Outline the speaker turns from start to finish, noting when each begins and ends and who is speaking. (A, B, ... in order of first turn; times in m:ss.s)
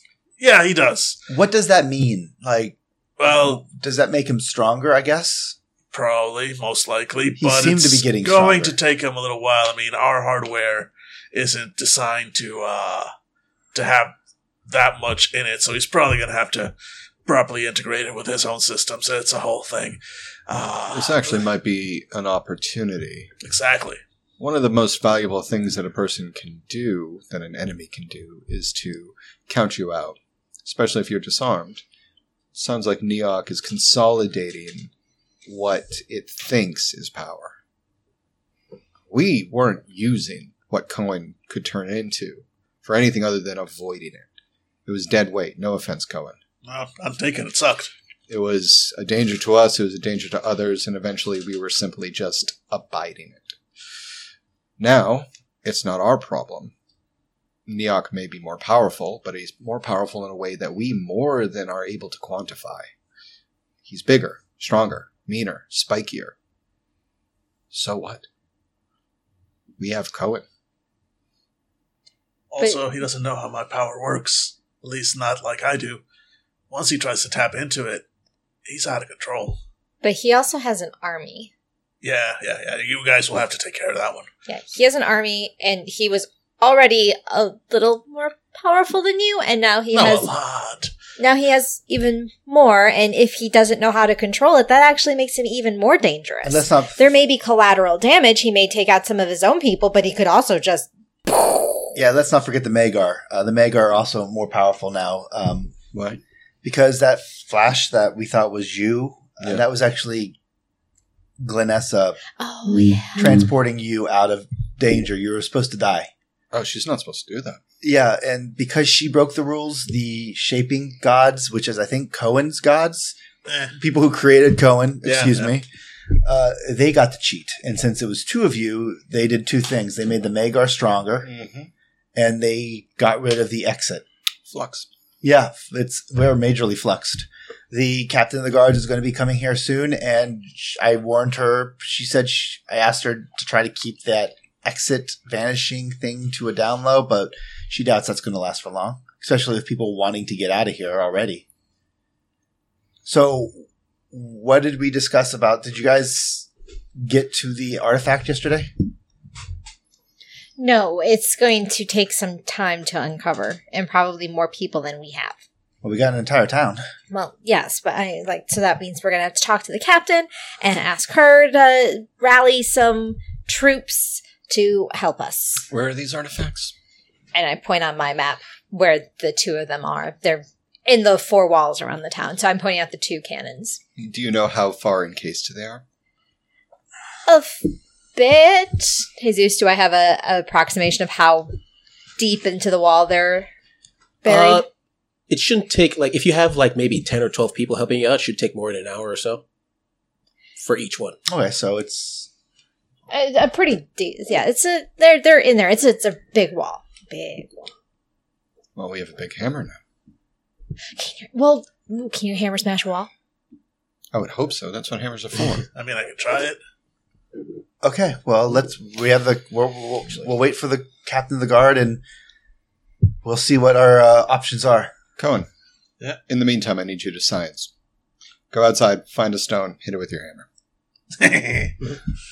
0:00.4-0:01.2 A
0:01.3-0:05.6 B
0:03.2-0:03.6 A
0:05.9-0:13.1 A
0:07.4-0:08.8 B
0:13.7-0:14.1 A
0:14.7-0:16.7 A
0:17.2-0:21.4 A
0:20.9-0:23.3 C
0:23.4-0:24.0 A
0:24.4-0:31.8 C
0:32.5-0:34.9 C
0:35.5-0:37.5 C
0:39.1-0:44.3 C
0:44.8-0:46.4 C
0:46.6-0:47.9 A
0:48.3-0:53.6 C
0:54.8-0:56.7 C
0:57.7-1:02.9 C
1:03.8-1:06.3 C
1:07.7-1:08.2 C
1:09.8-1:10.4 C
1:12.5-1:16.0 A
1:16.7-1:18.0 A
1:18.6-1:19.6 A
1:20.0-1:21.5 D
1:22.0-1:24.3 A
1:24.5-1:30.3 D
1:29.9-1:30.9 A
1:31.2-1:40.9 D
1:36.4-1:37.0 B
1:41.9-1:45.8 B
1:45.9-1:46.2 C
1:46.6-1:50.3 B
1:51.4-1:52.2 B
1:52.4-1:53.4 D
1:53.1-1:56.1 B
1:56.5-1:57.6 C
1:57.8-2:03.2 B
2:03.5-2:03.7 A
2:03.7-2:05.6 B
2:05.0-2:05.5 A
2:06.2-2:11.3 B
2:11.2-2:11.7 C
2:12.1-2:14.0 B
2:14.5-2:14.9 C
2:15.2-2:31.4 B
2:33.0-2:33.6 B
2:34.1-2:38.7 B
2:40.6-2:45.4 D
2:45.8-2:46.8 B
2:47.1-2:55.6 D
2:55.7-2:56.7 C
2:57.3-3:03.8 D
3:04.0-3:05.8 C
3:07.3-3:11.5 D
3:12.2-3:13.5 D
3:14.2-3:14.6 D
3:14.2-3:14.7 E
3:15.3-3:19.4 E
3:20.6-3:21.2 E
3:21.3-3:22.3 B
3:23.1-3:27.5 D
3:28.8-3:29.8 C
3:31.0-3:33.1 D
3:34.1-3:35.7 C
3:35.7-3:36.6 A
3:37.8-3:42.0 B
3:43.2-3:44.9 B
3:45.2-3:45.5 C
3:46.3-3:47.7 C
3:48.5-3:50.4 C
3:51.2-3:51.8 A